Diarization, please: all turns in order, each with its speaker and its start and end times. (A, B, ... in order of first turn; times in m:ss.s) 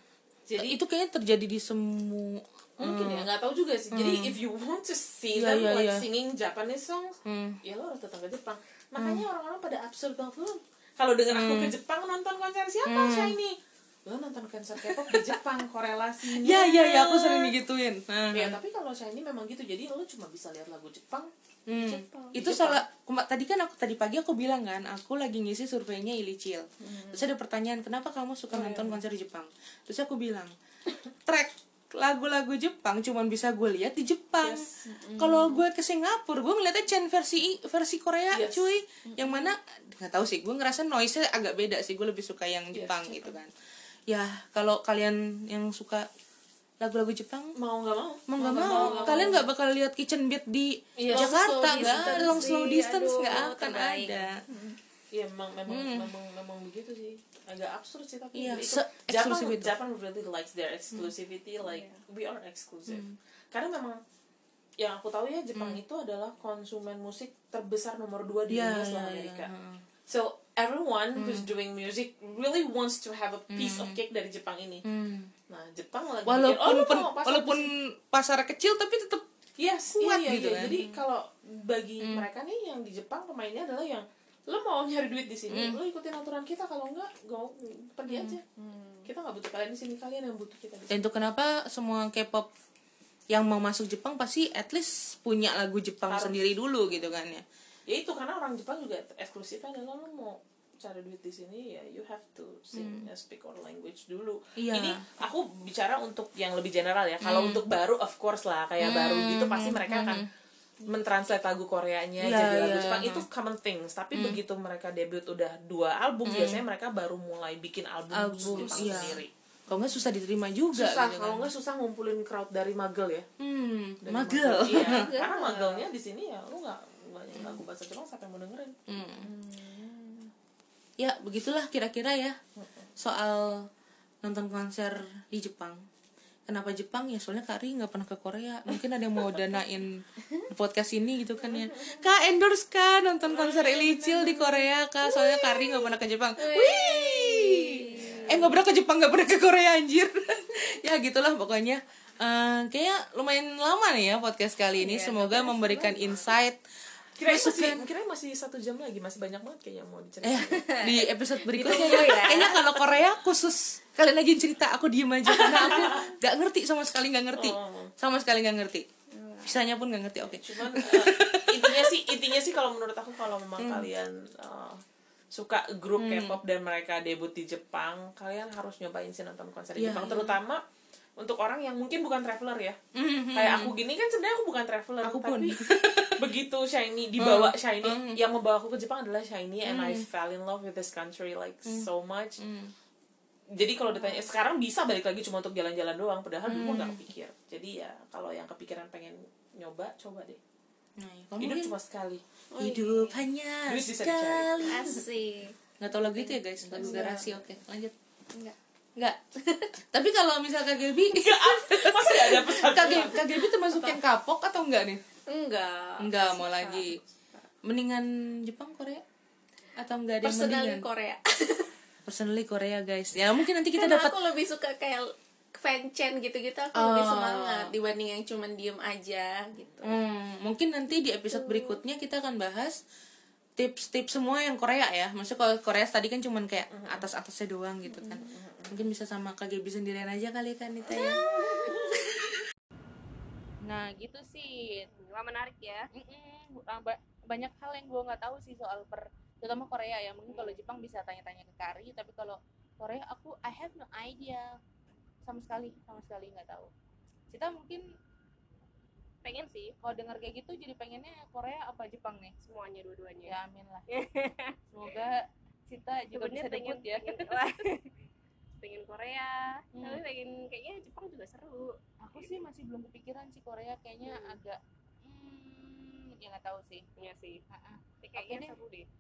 0:00.5-0:00.8 A
0:00.6-0:03.3 B
0:02.8-0:17.5 A
0:03.9-0:04.3 B
0:05.3-0:06.0 B
0:07.2-0:07.6 B
0:09.0-0:09.2 B
0:11.3-0:11.7 B
0:12.8-0:13.4 B
0:15.1-0:15.3 B
0:16.4-0:18.6 B
0:18.3-0:21.3 A
0:21.7-0:30.5 B
0:21.7-0:22.4 C
0:22.3-0:22.8 A
0:26.8-0:27.3 A
0:28.5-0:29.0 A
0:31.2-0:34.6 B
0:34.4-0:35.2 A
0:34.9-0:35.6 C
0:35.2-0:43.5 B
0:38.3-0:38.7 A
0:39.1-0:39.5 C
0:42.8-0:43.1 A
0:42.8-0:43.3 C
0:44.1-0:46.1 B
0:46.8-0:47.5 B
0:47.5-0:49.4 A
0:48.3-0:54.4 B
0:48.9-0:49.3 C
0:51.0-0:52.5 A
0:51.0-0:54.4 C
0:54.5-1:04.0 A
0:55.7-0:56.1 B
0:58.3-0:59.7 B
1:01.6-1:02.0 C
1:02.9-1:03.1 B
1:04.8-1:09.5 A
1:05.6-1:05.8 B
1:08.5-1:09.8 B
1:10.1-1:14.8 A
1:11.2-1:11.5 B
1:13.5-1:14.0 B
1:14.8-1:15.3 B
1:15.5-1:17.7 A
1:16.2-1:19.2 B
1:19.6-1:28.5 A
1:20.0-1:20.8 B
1:22.0-1:22.3 B
1:25.5-1:25.8 B
1:28.1-1:28.4 B
1:28.6-1:29.1 C
1:29.0-1:31.0 A
1:30.9-1:32.5 B
1:33.3-1:37.4 B
1:36.1-1:36.4 A
1:37.9-1:50.3 A
1:42.7-1:43.1 B
1:44.6-1:45.0 B
1:47.2-1:47.6 B
1:48.8-1:50.2 B
1:50.8-1:59.3 A
1:52.2-1:53.2 B
1:56.2-1:56.6 B
1:58.1-2:01.5 B
1:58.4-1:58.9 C
2:00.7-2:03.2 A
2:03.4-2:05.0 B
2:04.0-2:10.2 A
2:04.7-2:05.9 C
2:07.4-2:07.6 B
2:08.9-2:09.3 B
2:11.0-2:12.4 B
2:12.6-2:12.9 A
2:13.0-2:13.7 B
2:14.2-2:15.8 B
2:16.5-2:36.6 B
2:21.5-2:22.0 C
2:23.3-2:24.7 A
2:25.0-2:25.8 C
2:26.4-2:28.5 C
2:28.0-2:28.5 A
2:34.8-2:36.2 C
2:37.2-2:40.7 A
2:37.2-2:37.8 B
2:40.2-2:48.9 B
2:40.6-2:42.6 C
2:41.8-2:42.6 A
2:45.3-2:46.1 A
2:47.3-2:47.9 A
2:49.1-2:49.6 C
2:49.4-2:52.1 B
2:50.3-2:54.8 A
2:53.6-2:53.9 B
2:55.3-3:00.6 A
2:56.0-2:56.4 B
2:59.8-3:00.4 B
3:01.2-3:02.8 A
3:03.0-3:03.7 B
3:03.3-3:05.6 A
3:05.0-3:06.3 B
3:06.1-3:12.4 A
3:07.2-3:08.2 B
3:09.6-3:10.0 B
3:12.4-3:12.7 B
3:13.6-3:20.4 A
3:16.5-3:17.0 B
3:21.0-3:21.7 B
3:21.4-3:22.2 A
3:22.5-3:23.2 C
3:22.6-3:25.0 B
3:23.7-3:25.0 A
3:24.6-3:25.5 C
3:25.8-3:27.9 B
3:26.6-3:27.2 A
3:26.7-3:27.3 C
3:29.4-3:29.7 C
3:29.9-3:35.0 B
3:31.1-3:33.4 A
3:35.3-3:37.5 C
3:36.0-3:37.0 B
3:37.6-3:39.0 B
3:39.8-3:40.8 B
3:40.2-3:41.7 C
3:42.0-3:44.1 B
3:43.7-3:49.9 C
3:46.8-3:47.7 B
3:49.8-3:52.8 B
3:51.4-3:51.8 C
3:53.6-4:01.2 B
3:56.7-3:57.1 A
3:57.9-3:58.2 C
3:58.2-3:58.8 A
4:00.9-4:02.0 C
4:03.6-4:04.9 D
4:04.9-4:05.9 E
4:05.9-4:14.5 D
4:10.3-4:10.6 E
4:15.2-4:16.7 D
4:17.3-4:17.8 D
4:19.2-4:19.8 E
4:19.8-4:22.4 D
4:22.4-4:23.4 E
4:23.2-4:23.8 D
4:23.9-4:24.9 E
4:24.7-4:27.5 D
4:26.1-4:27.9 E
4:28.6-4:32.4 E
4:29.7-4:30.0 D
4:32.0-4:36.8 D
4:34.0-4:34.3 E
4:37.0-4:37.4 E
4:37.5-4:38.6 D
4:38.0-4:38.9 E